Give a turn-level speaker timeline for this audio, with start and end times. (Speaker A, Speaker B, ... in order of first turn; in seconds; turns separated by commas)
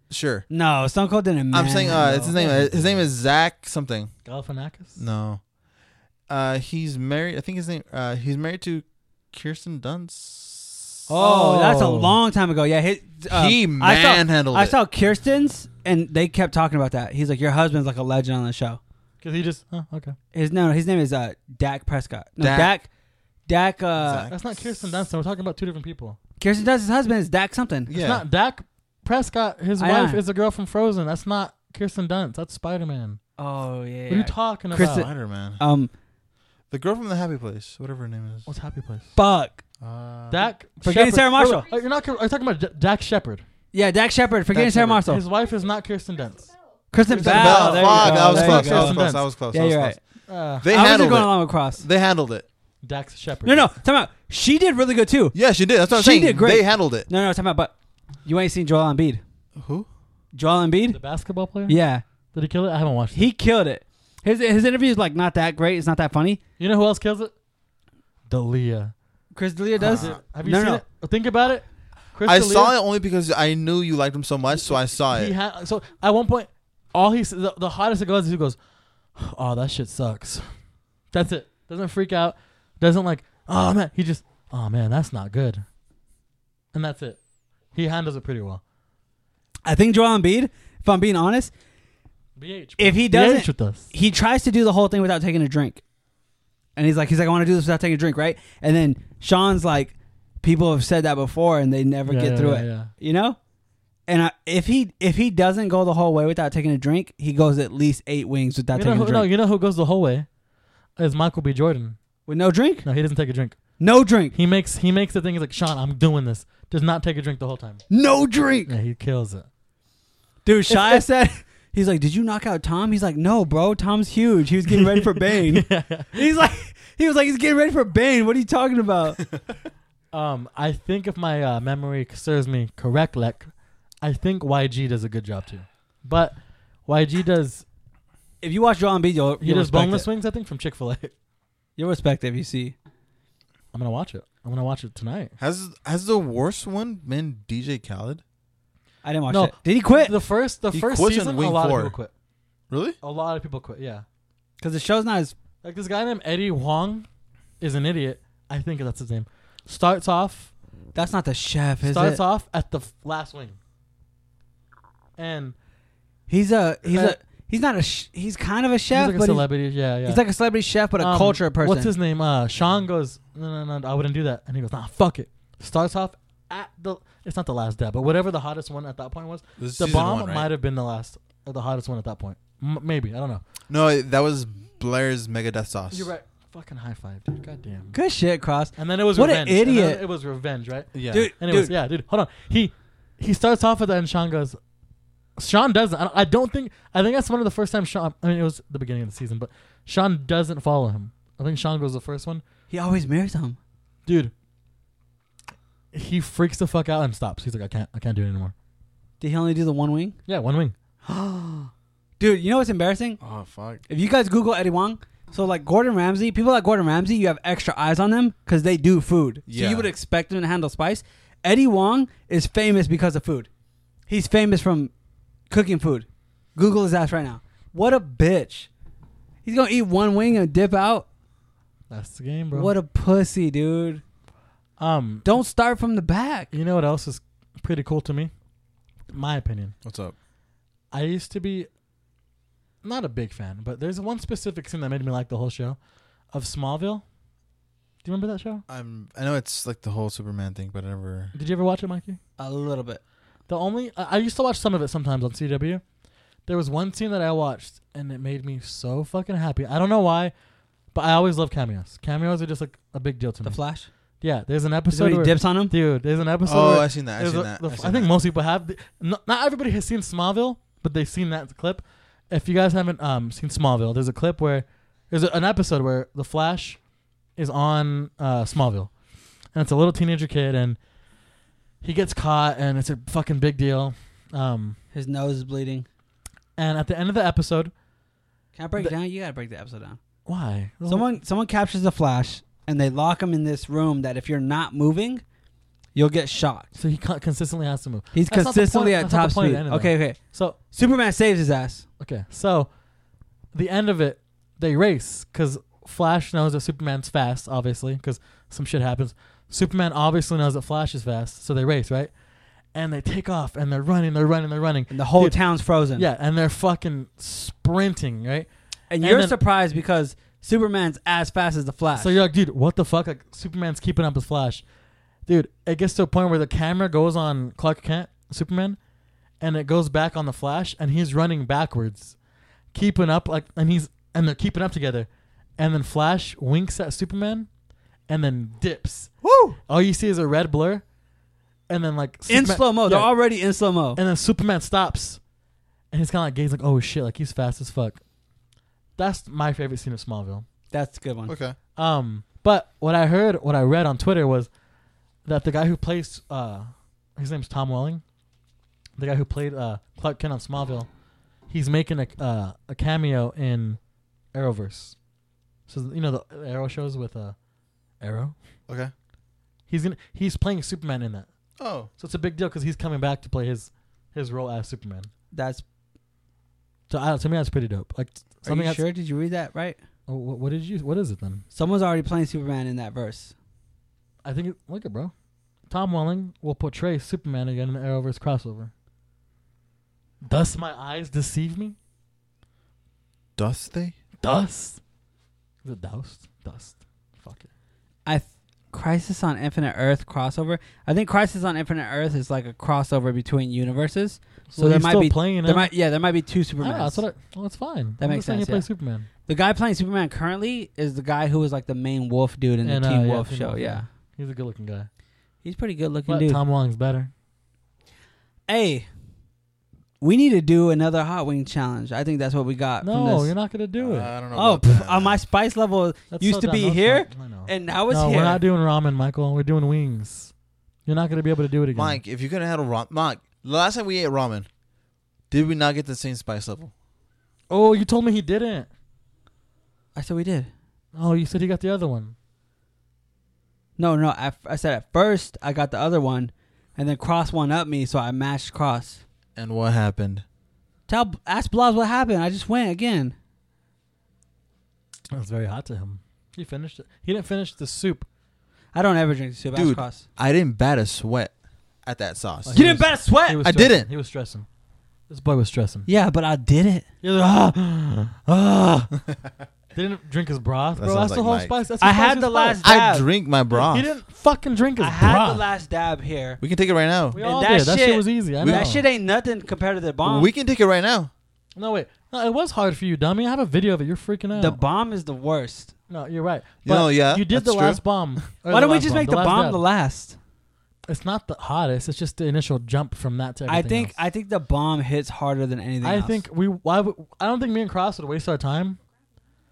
Speaker A: 0.1-0.5, Speaker B: 0.5-2.2, Speaker A: 1.5-4.1, Speaker C: 1.9-3.1, Speaker C: 4.2-5.0, Speaker A: 5.0-5.4, Speaker A: 6.3-10.9, Speaker B: 11.1-18.8, Speaker C: 11.1-12.2, Speaker A: 13.3-14.8, Speaker C: 19.2-20.1, Speaker B: 20.3-22.9, Speaker A: 22.4-22.7, Speaker B: 23.5-24.3, Speaker A: 24.0-24.8, Speaker C: 24.3-26.2, Speaker B: 26.4-27.9, Speaker A: 27.9-28.2, Speaker C: 27.9-33.2, Speaker B: 29.8-30.2, Speaker B: 33.4-35.9, Speaker C: 34.1-35.1, Speaker A: 34.7-35.6, Speaker A: 36.7-38.5, Speaker C: 38.5-39.1, Speaker B: 39.1-39.6, Speaker A: 39.8-40.5, Speaker C: 40.3-43.4, Speaker B: 40.8-41.7, Speaker B: 43.7-45.2, Speaker A: 44.5-45.0, Speaker C: 45.0-46.5, Speaker B: 46.9-50.0, Speaker C: 47.0-49.2, Speaker A: 47.2-50.0, Speaker C: 50.3-50.7, Speaker A: 50.6-52.5, Speaker B: 50.6-51.8, Speaker C: 52.8-53.7, Speaker B: 53.4-55.4, Speaker A: 55.3-57.1, Speaker B: 55.9-57.7, Speaker B: 58.2-59.2, Speaker A: 59.5-59.9, Speaker B: 60.3-61.0, Speaker C: 60.9-61.8, Speaker B: 61.7-62.0, Speaker C: 62.3-63.3, Speaker B: 63.1-66.4, Speaker C: 66.6-67.3, Speaker C: 68.3-68.9, Speaker B: 69.3-70.8, Speaker A: 69.8-70.2, Speaker C: 69.8-72.7, Speaker A: 72.2-75.3, Speaker C: 75.0-78.6, Speaker C: 79.2-80.5, Speaker C: 81.1-85.6, Speaker C: 86.7-87.2, Speaker C: 87.7-88.6, Speaker B: 89.6-91.5, Speaker C: 92.4-93.9, Speaker B: 92.8-95.8, Speaker B: 96.8-103.4, Speaker C: 102.0-102.9, Speaker B: 104.1-109.3, Speaker C: 108.7-110.3, Speaker C: 111.0-112.0, Speaker B: 112.3-112.9, Speaker C: 112.8-113.6, Speaker B: 113.8-114.3, Speaker C: 114.3-117.8, Speaker B: 117.9-118.7, Speaker C: 118.7-119.5, Speaker B: 120.4-129.2, Speaker C: 120.7-121.0, Speaker C: 124.7-126.2, Speaker C: 130.1-137.6, Speaker B: 138.4-140.1, Speaker C: 139.4-141.1, Speaker B: 141.8-142.7, Speaker C: 143.7-145.3, Speaker A: 145.4-148.2, Speaker B: 149.0-150.1, Speaker C: 149.3-152.1, Speaker A: 150.7-151.9, Speaker A: 152.7-153.0, Speaker C: 153.0-154.0, Speaker B: 154.6-155.3, Speaker C: 155.6-157.1, Speaker C: 157.6-160.5, Speaker B: 160.9-162.2, Speaker C: 161.8-163.6, Speaker C: 165.2-165.5, Speaker B: 166.3-169.5, Speaker C: 166.9-167.2, Speaker C: 168.9-170.2, Speaker B: 170.0-171.9, Speaker C: 171.0-183.4, Speaker A: 179.6-180.5, Speaker A: 183.7-186.1, Speaker C: 185.9-188.0, Speaker B: 187.9-190.0, Speaker C: 188.8-194.6, Speaker A: 190.9-191.3, Speaker B: 191.1-191.7, Speaker C: 195.4-202.4, Speaker B: 202.7-203.6, Speaker C: 204.1-204.3, Speaker C: 205.9-208.5, Speaker B: 209.2-210.2, Speaker C: 210.3-210.7, Speaker B: 211.1-213.2, Speaker A: 213.2-213.8, Speaker B: 213.9-223.5, Speaker A: 219.5-219.9, Speaker B: 224.1-224.9, Speaker B: 225.5-228.7, Speaker B: 229.4-231.1, Speaker C: 231.9-232.7, Speaker B: 232.5-234.0, Speaker C: 234.8-235.3, Speaker B: 235.2-236.5, Speaker C: 236.5-238.3, Speaker C: 239.1-239.7, Speaker A: 239.8-240.1, Speaker C: 240.9-241.7, Speaker C: 242.8-245.8, Speaker C: 246.3-247.0, Speaker C: 248.0-248.6, Speaker A: 248.7-251.3, Speaker C: 251.3-252.2, Speaker B: 252.4-253.0, Speaker C: 253.5-255.8, Speaker C: 256.5-260.3, Speaker C: 260.9-263.6, Speaker B: 263.4-263.9, Speaker C: 264.2-276.8, Speaker B: 264.9-265.7, Speaker A: 266.4-268.1, Speaker C: 277.4-278.9, Speaker C: 279.5-280.8, Speaker C: 281.8-284.8, Speaker B: 284.9-285.9, Speaker C: 286.6-287.7, Speaker B: 288.6-290.0, Speaker C: 290.2-291.1, Speaker B: 290.9-295.2, Speaker B: 295.9-296.7, Speaker C: 296.7-300.6, Speaker B: 298.1-301.9, Speaker C: 302.0-302.7, Speaker C: 303.5-312.1, Speaker C: 312.7-315.4, Speaker B: 314.9-316.1, Speaker C: 316.0-318.5, Speaker B: 318.9-322.2, Speaker C: 319.0-319.4, Speaker C: 321.9-324.6, Speaker C: 325.3-328.8, Speaker C: 329.4-332.1, Speaker C: 332.7-337.5, Speaker C: 338.1-339.1, Speaker B: 339.2-339.6, Speaker C: 339.7-340.8, Speaker C: 341.7-343.1, Speaker B: 342.3-344.0, Speaker C: 343.9-345.2, Speaker C: 345.9-348.0, Speaker C: 349.0-350.4, Speaker B: 350.7-351.3, Speaker A: 351.3-351.6, Speaker C: 351.8-354.5, Speaker C: 355.2-358.0, Speaker C: 359.0-360.9, Speaker C: 361.5-363.8, Speaker C: 364.3-364.9, Speaker C: 365.7-367.4, Speaker C: 368.0-368.3, Speaker C: 369.7-371.3, Speaker A: 371.6-371.9, Speaker C: 372.0-375.1, Speaker B: 375.3-375.6, Speaker C: 376.9-378.8, Speaker B: 378.4-379.8, Speaker C: 380.1-381.4, Speaker B: 381.5-383.3, Speaker C: 384.2-385.1, Speaker C: 385.7-388.7, Speaker C: 390.2-391.8, Speaker A: 393.4-393.9, Speaker C: 394.2-394.8, Speaker C: 395.6-397.5, Speaker B: 398.1-407.0, Speaker C: 404.5-405.7, Speaker C: 406.6-409.1, Speaker B: 408.0-408.6, Speaker B: 409.3-413.9, Speaker C: 412.6-414.9, Speaker B: 415.4-416.4, Speaker C: 416.1-417.1, Speaker B: 418.5-418.9, Speaker B: 420.0-423.3, Speaker C: 422.8-424.1, Speaker A: 423.8-425.2, Speaker B: 424.3-428.4, Speaker C: 426.1-430.3, Speaker C: 430.9-432.0, Speaker A: 431.7-434.5, Speaker A: 435.3-436.7, Speaker C: 437.5-438.7, Speaker B: 439.9-440.5, Speaker C: 440.9-442.1, Speaker B: 443.8-449.0, Speaker A: 449.4-450.2, Speaker B: 450.9-453.1, Speaker C: 455.1-458.1, Speaker B: 458.7-460.0, Speaker A: 459.5-461.3, Speaker A: 461.8-462.6, Speaker C: 462.4-464.5, Speaker B: 462.5-463.5, Speaker A: 463.4-463.9, Speaker C: 465.1-465.9, Speaker B: 465.9-466.9, Speaker C: 467.0-468.9, Speaker C: 469.7-472.6, Speaker A: 470.8-471.6, Speaker B: 471.8-473.0, Speaker A: 472.6-473.9, Speaker C: 473.5-475.4, Speaker B: 474.8-476.4, Speaker A: 476.4-477.2, Speaker C: 477.1-478.8, Speaker B: 477.2-480.3, Speaker A: 478.4-478.7, Speaker A: 480.0-481.1, Speaker C: 481.5-484.6, Speaker B: 484.3-485.7, Speaker C: 485.9-489.6, Speaker A: 486.6-487.8, Speaker B: 488.5-490.2, Speaker C: 490.9-493.9, Speaker B: 493.5-496.2, Speaker C: 495.8-498.8